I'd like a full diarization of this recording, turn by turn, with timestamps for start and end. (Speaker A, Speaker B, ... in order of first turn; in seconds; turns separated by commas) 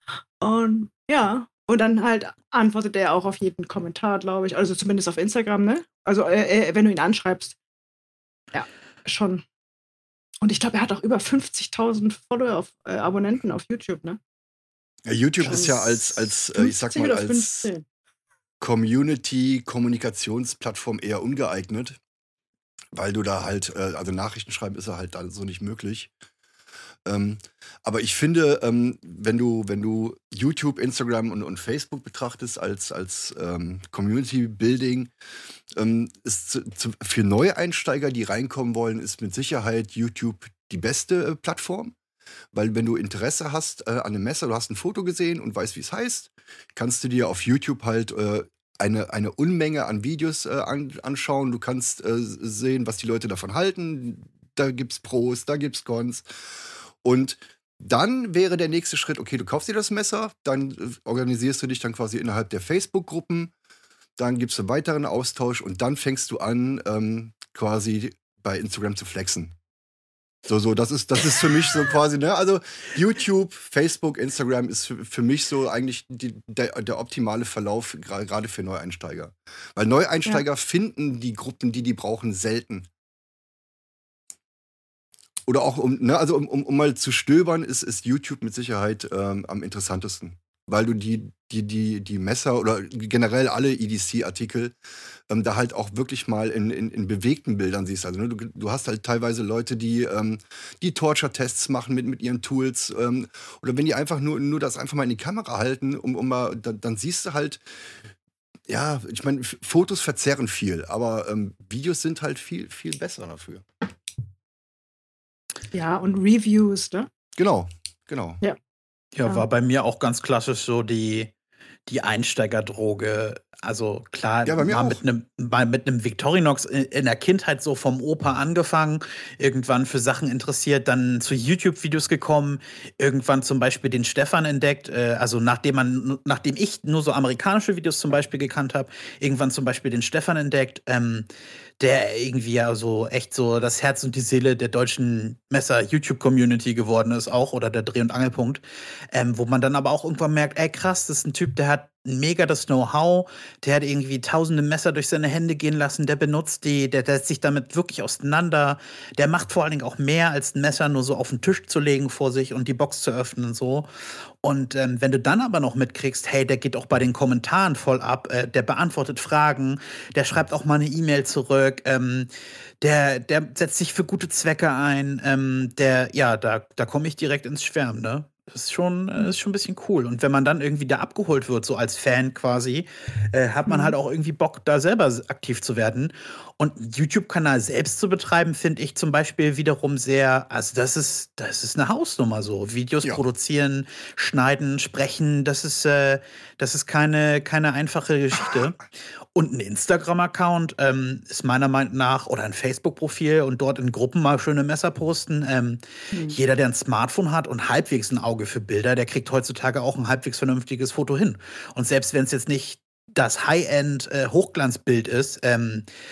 Speaker A: 0.4-7.5, Speaker A: 8.5-9.4, Speaker A: 10.4-14.2, Speaker B: 15.1-17.7, Speaker A: 15.4-17.8, Speaker B: 18.6-22.0, Speaker B: 22.9-26.1, Speaker B: 27.1-35.1, Speaker B: 35.7-41.9, Speaker B: 42.5-56.2, Speaker B: 57.0-63.5, Speaker B: 64.2-69.5, Speaker B: 70.5-82.9, Speaker B: 85.5-94.7, Speaker B: 95.3-107.6, Speaker B: 108.7-113.6, Speaker A: 115.7-117.1, Speaker B: 117.4-118.4, Speaker C: 119.1-121.3, Speaker C: 121.9-141.3, Speaker B: 124.5-125.0, Speaker C: 141.8-163.9, Speaker C: 164.4-172.3, Speaker C: 172.8-198.8, Speaker A: 183.7-183.9, Speaker C: 199.3-215.9